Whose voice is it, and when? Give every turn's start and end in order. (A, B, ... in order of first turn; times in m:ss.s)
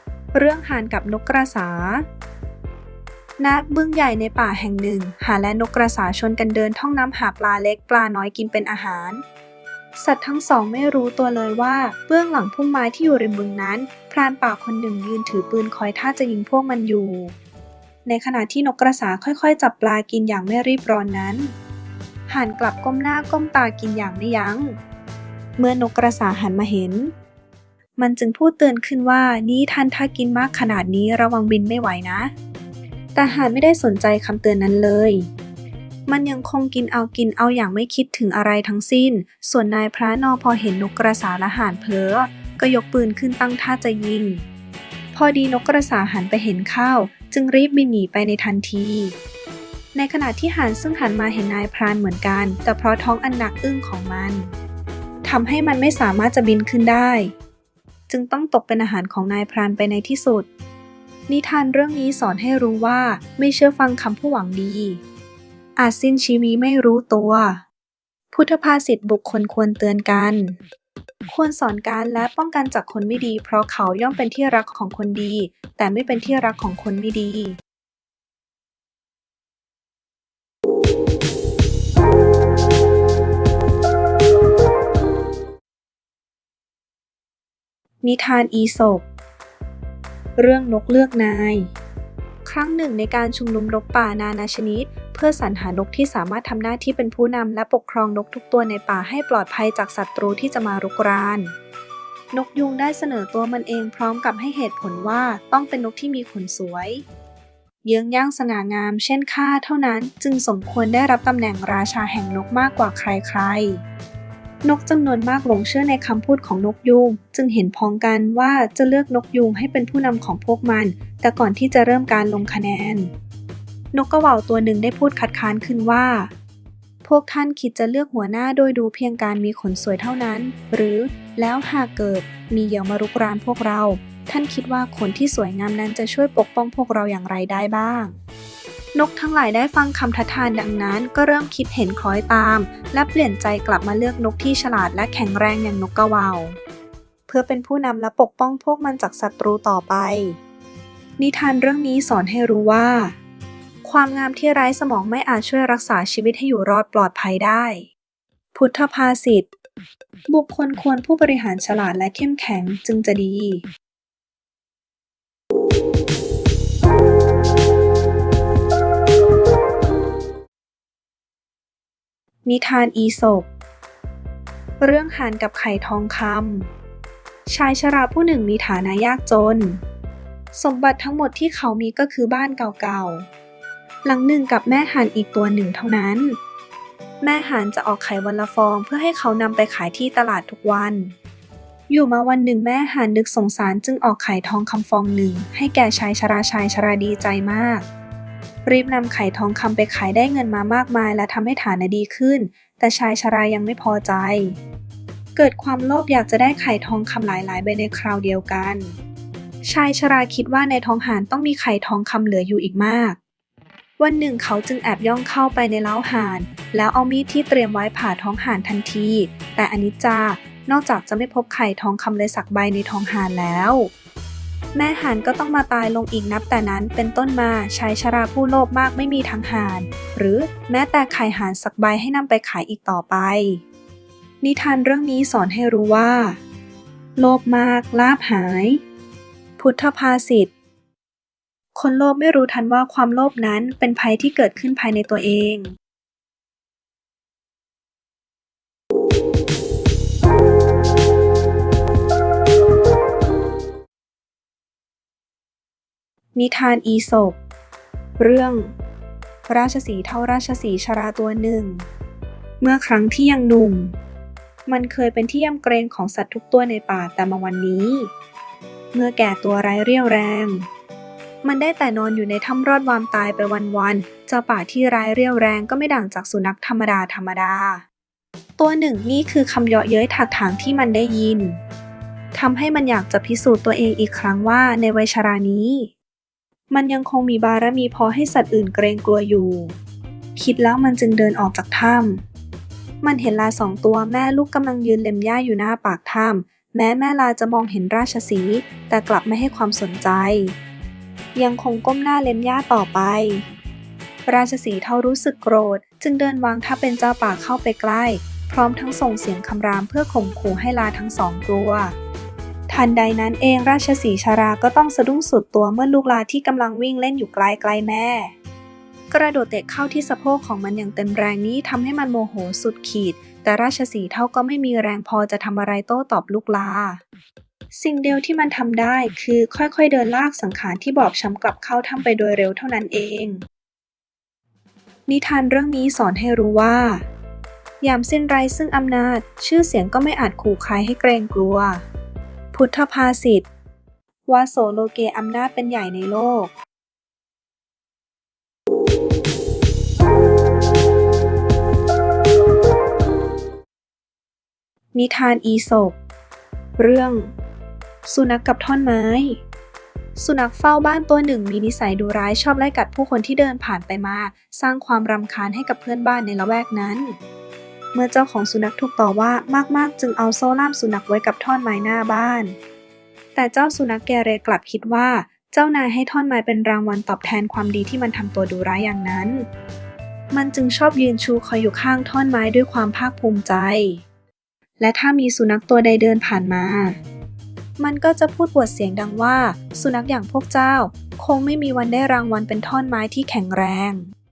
0:00.3-0:02.0 A
0:03.4-0:09.2 A
0:10.0-0:17.4 A
0:18.0-0:21.5 A
0:22.3-0:24.8 A
0:25.6-0:27.1 A
0:28.0-0:32.3 A
0:33.2-0:35.3 A
0:36.1-0:44.4 A
0:45.1-0:49.2 A
0:50.0-0:54.5 A
0:55.2-0:57.3 A
0:58.1-1:00.5 A
1:01.3-1:05.0 A
1:05.8-1:07.6 A
1:08.3-1:10.6 A
1:11.3-1:17.6 A
1:28.0-1:29.0 A
1:30.4-1:31.7 A
1:32.4-1:41.5 A
1:42.3-1:47.0 A
1:47.8-1:53.8 A
1:54.6-2:03.1 A
2:03.9-2:06.3 A
2:07.0-2:18.2 A
2:18.9-2:26.6 A
2:27.3-2:30.4 A
2:31.2-2:33.2 A
2:33.8-2:37.9 A
2:38.5-2:39.5 A
2:40.3-2:43.6 A
2:52.5-2:53.5 A
2:54.8-2:56.7 A
2:57.5-2:59.8 A
3:00.5-3:03.3 A
3:04.0-3:06.4 A
3:07.2-3:11.1 A
3:11.9-3:17.8 A
3:18.6-3:24.6 A
3:25.4-3:28.9 A
3:29.7-3:33.2 A
3:34.0-3:43.9 A
3:44.7-3:53.6 A
3:54.4-3:56.4 A
3:57.2-3:58.8 A
3:59.6-4:00.5 A
4:01.8-4:05.7 A
4:16.3-4:17.4 A
4:18.2-4:18.7 A
4:19.5-4:21.8 A
4:22.6-4:23.9 A
4:24.6-4:28.1 A
4:28.9-4:30.6 A
4:31.4-4:37.8 A
4:38.6-4:41.6 A
4:42.3-4:45.9 A
4:46.7-4:49.8 A
4:50.3-4:52.2 A
4:53.0-5:00.6 A
5:01.3-5:03.4 A
5:04.2-5:12.0 A
5:12.7-5:18.3 A
5:19.1-5:27.0 A
5:27.7-5:33.4 A
5:35.1-5:37.0 A
5:37.8-5:41.8 A
5:42.5-5:43.5 A
5:44.3-5:46.5 A
5:54.9-5:56.0 A
5:56.8-5:57.3 A
5:58.1-5:59.4 A
6:00.2-6:07.2 A
6:07.9-6:12.6 A
6:13.3-6:19.5 A
6:20.3-6:24.0 A
6:24.8-6:27.0 A
6:27.8-6:34.1 A